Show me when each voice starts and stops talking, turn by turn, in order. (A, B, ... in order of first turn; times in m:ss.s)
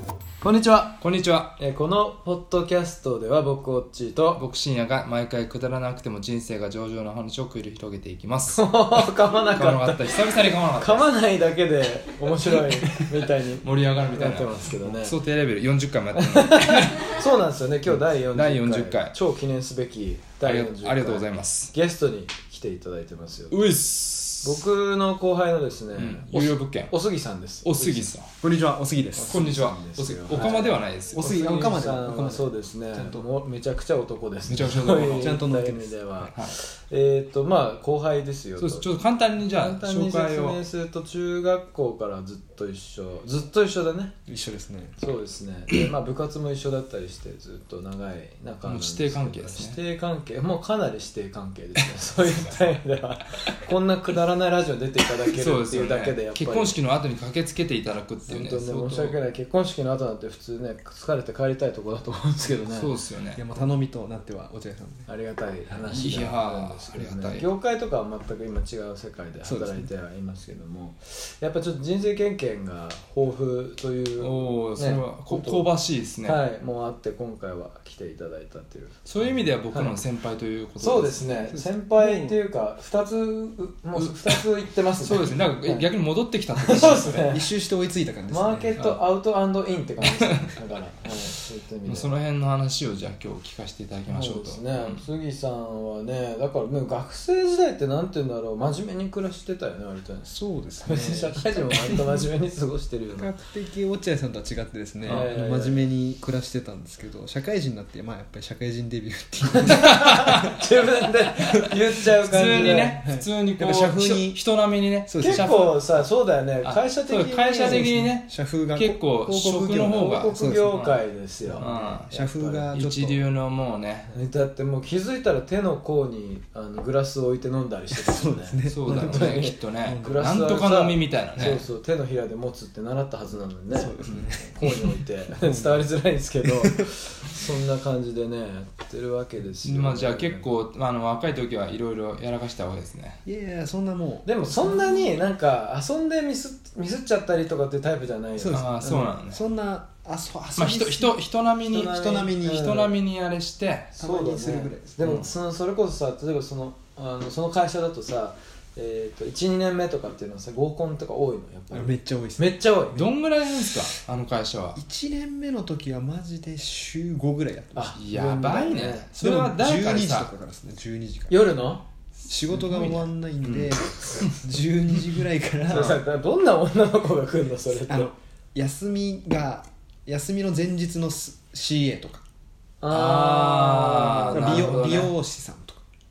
0:00.4-0:00.9 A
0:01.0-0:01.6 B
0:01.6-0:04.4 A
0:04.4-0:09.0 B
0:08.5-0:15.2 A
0:09.6-0:11.1 B
0:13.6-0:17.2 B
0:16.1-0:23.6 A
0:17.9-0:19.1 B
0:20.4-0:21.7 B
0:23.5-0:24.6 B
0:24.4-0:28.1 A
0:25.9-0:27.0 B
0:27.6-0:28.3 B
0:28.4-0:29.5 C
0:29.1-0:38.9 A
0:29.3-0:31.3 B
0:30.3-0:33.2 C
0:34.5-0:35.4 B
0:34.6-0:36.3 C
0:38.6-0:40.6 B
0:39.5-0:44.1 A
0:44.2-0:45.0 C
0:45.0-0:56.8 A
0:48.6-0:49.8 B
0:55.3-0:59.1 B
0:58.3-1:02.9 A
1:02.7-1:03.4 B
1:03.3-1:05.1 C
1:05.1-1:15.7 A
1:05.8-1:07.5 B
1:09.4-1:09.9 C
1:14.2-1:16.4 B
1:16.2-1:19.9 A
1:19.0-1:21.3 B
1:20.8-1:25.9 A
1:21.5-1:22.3 C
1:23.9-1:24.4 B
1:25.0-1:27.3 B
1:26.5-1:27.4 A
1:26.7-1:28.7 C
1:28.3-1:32.1 A
1:30.0-1:30.5 B
1:31.9-1:35.0 B
1:34.1-1:40.3 A
1:40.3-1:42.3 C
1:40.8-1:43.3 A
1:43.1-1:50.6 C
1:45.1-1:45.8 A
1:49.5-1:53.0 A
1:49.9-1:50.5 B
1:52.2-1:55.7 B
1:52.4-1:54.4 C
1:55.0-1:55.7 C
1:55.2-1:58.1 A
1:56.6-2:01.0 B
1:57.7-2:00.8 C
1:59.9-2:02.6 A
2:01.4-2:03.2 C
2:01.6-2:02.1 B
2:02.7-2:04.1 B
2:04.1-2:20.4 A
2:07.9-2:10.3 C
2:08.7-2:11.6 B
2:11.4-2:11.6 C
2:13.7-2:15.9 C
2:19.6-2:23.2 B
2:23.2-2:24.8 C
2:24.2-2:28.6 A
2:28.4-2:31.2 C
2:28.5-2:29.4 B
2:30.6-2:33.9 B
2:31.7-2:32.9 A
2:31.9-2:32.6 C
2:34.0-2:35.2 C
2:34.0-2:43.1 A
2:35.0-2:35.3 B
2:41.7-2:42.6 C
2:42.9-2:44.8 B
2:44.8-2:47.9 C
2:47.7-2:49.1 A
2:47.9-2:50.3 B
2:49.2-2:51.6 C
2:51.3-2:51.8 A
2:52.2-2:56.0 C
2:52.5-2:54.4 B
2:55.7-2:58.1 A
2:55.7-2:56.0 B
2:57.9-3:02.2 C
3:02.8-3:04.8 A
3:02.9-3:05.1 B
3:04.3-3:05.8 C